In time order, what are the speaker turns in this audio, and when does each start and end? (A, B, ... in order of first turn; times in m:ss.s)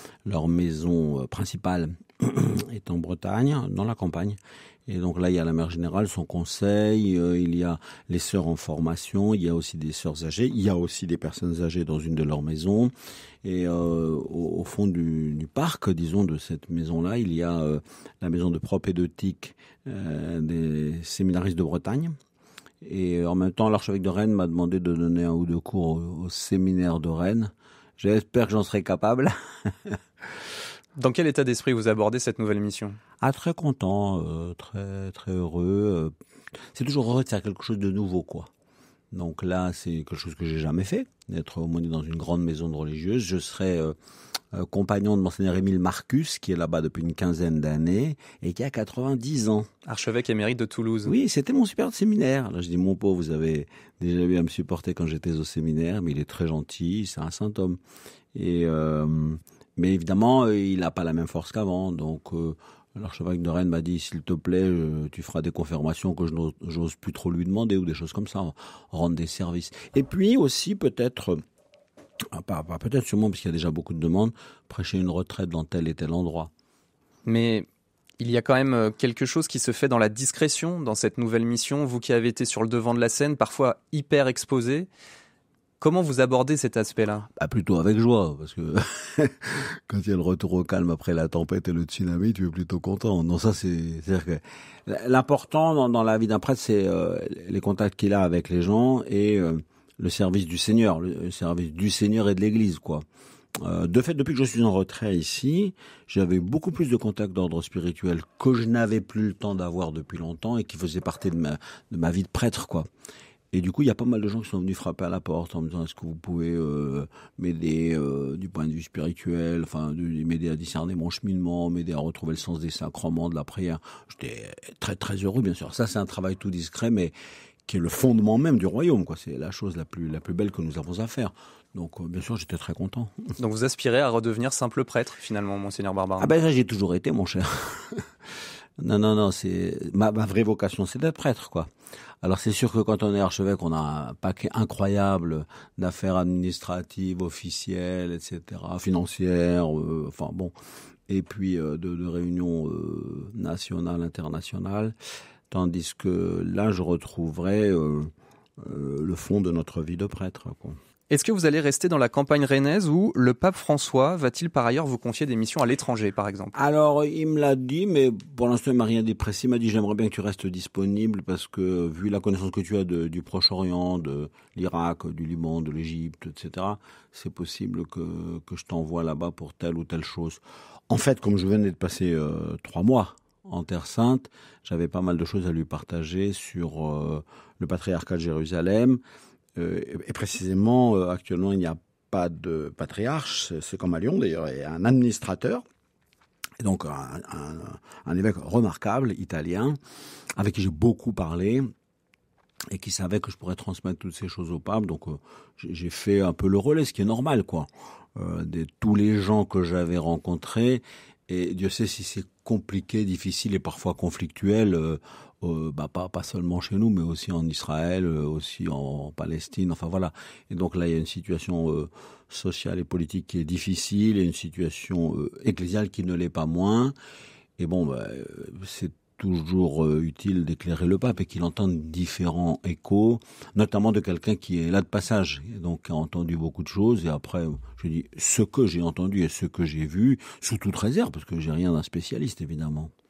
0:00.2-0:12.9 A
0:13.4-0:22.1 A
0:22.8-0:30.0 A
0:31.0-0:33.0 B
0:33.2-0:36.1 A
0:36.7-0:38.5 A
0:39.1-0:43.9 A
0:44.5-0:49.7 A
0:49.8-0:51.1 B
0:51.0-0:57.8 A
0:58.3-1:11.4 A
1:12.3-1:16.5 A
1:17.2-1:17.6 B
1:18.2-1:24.9 B
1:25.8-1:27.3 B
1:27.4-1:43.0 A
1:43.6-1:52.9 A
1:53.5-2:07.1 A
2:07.7-2:13.3 A
2:13.4-2:16.4 B
2:16.2-2:18.1 A
2:18.8-2:21.7 A
2:22.2-2:30.5 A
2:31.1-2:34.9 A
2:35.5-2:40.8 A
2:41.1-2:46.5 B
2:46.5-3:09.0 A
3:09.6-3:15.6 A
3:16.6-3:19.8 A
3:20.4-3:21.7 A
3:22.7-3:46.9 A
3:47.6-4:02.9 A